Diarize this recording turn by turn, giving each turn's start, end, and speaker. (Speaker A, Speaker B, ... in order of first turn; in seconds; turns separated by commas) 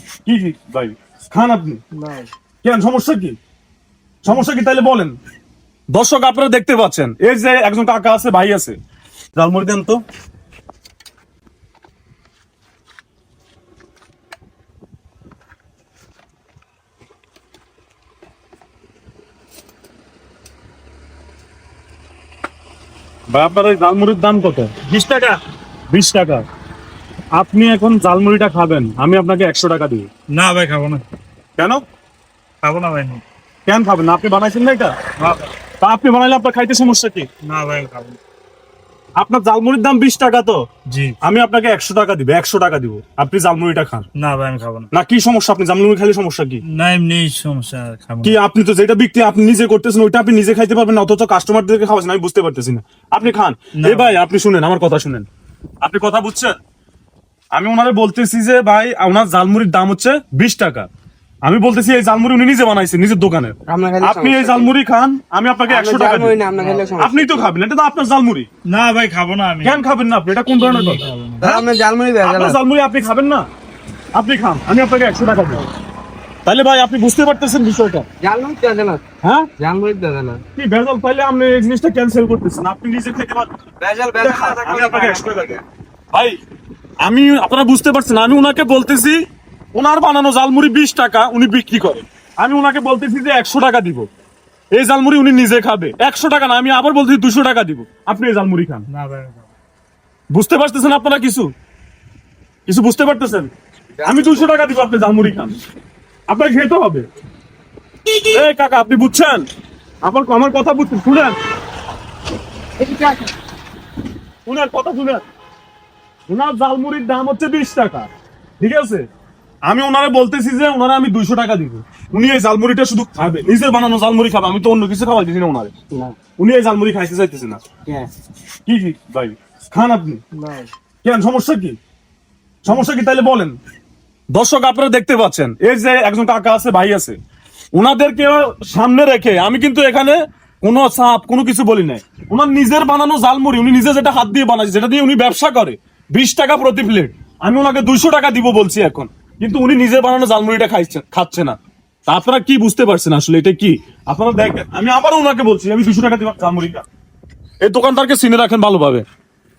Speaker A: 0.2-1.8, Speaker B: 1.9-2.3, Speaker A: 2.6-3.4, Speaker A: 4.2-5.2, Speaker A: 5.9-8.8, Speaker A: 9.4-10.0, Speaker A: 23.3-24.8, Speaker C: 24.9-25.4, Speaker A: 25.9-26.4, Speaker A: 27.3-30.1, Speaker C: 30.3-31.1, Speaker A: 31.6-31.8, Speaker C: 32.6-33.2, Speaker A: 33.7-35.0, Speaker C: 35.2-35.5, Speaker A: 35.8-37.3, Speaker C: 37.4-38.2, Speaker A: 39.2-40.6, Speaker C: 40.9-41.2, Speaker A: 41.2-44.0, Speaker C: 44.2-44.9, Speaker A: 44.9-46.6, Speaker C: 46.7-48.4, Speaker A: 48.2-55.3, Speaker C: 53.8-54.2, Speaker A: 55.8-56.5, Speaker A: 57.5-60.9, Speaker A: 61.5-66.4, Speaker B: 63.7-64.7, Speaker B: 65.7-67.5, Speaker C: 66.6-66.9, Speaker A: 67.0-68.5, Speaker C: 68.7-69.8, Speaker A: 69.6-71.6, Speaker C: 70.6-71.5, Speaker B: 71.4-72.6, Speaker A: 72.2-73.5, Speaker A: 74.2-75.6, Speaker A: 76.4-78.1, Speaker B: 78.2-79.0, Speaker A: 79.2-79.5, Speaker B: 79.6-80.4, Speaker A: 80.6-83.5, Speaker B: 83.8-85.5, Speaker A: 84.2-85.6, Speaker A: 86.1-86.4, Speaker A: 87.0-89.2, Speaker A: 89.8-94.1, Speaker A: 94.7-98.9, Speaker C: 98.9-99.5, Speaker A: 100.3-101.5, Speaker A: 102.7-103.5, Speaker B: 104.0-104.5, Speaker A: 104.0-105.6, Speaker A: 106.3-107.1, Speaker A: 108.2-109.5, Speaker A: 110.0-111.4, Speaker B: 112.8-113.1, Speaker A: 114.5-115.2, Speaker A: 116.3-118.1, Speaker A: 118.6-119.1, Speaker A: 119.7-125.7, Speaker B: 125.9-126.2, Speaker A: 126.4-127.6, Speaker A: 128.7-130.2, Speaker B: 130.3-130.7, Speaker A: 131.0-131.8, Speaker A: 132.6-133.6, Speaker A: 134.3-137.2, Speaker A: 137.7-156.8, Speaker A: 157.6-159.1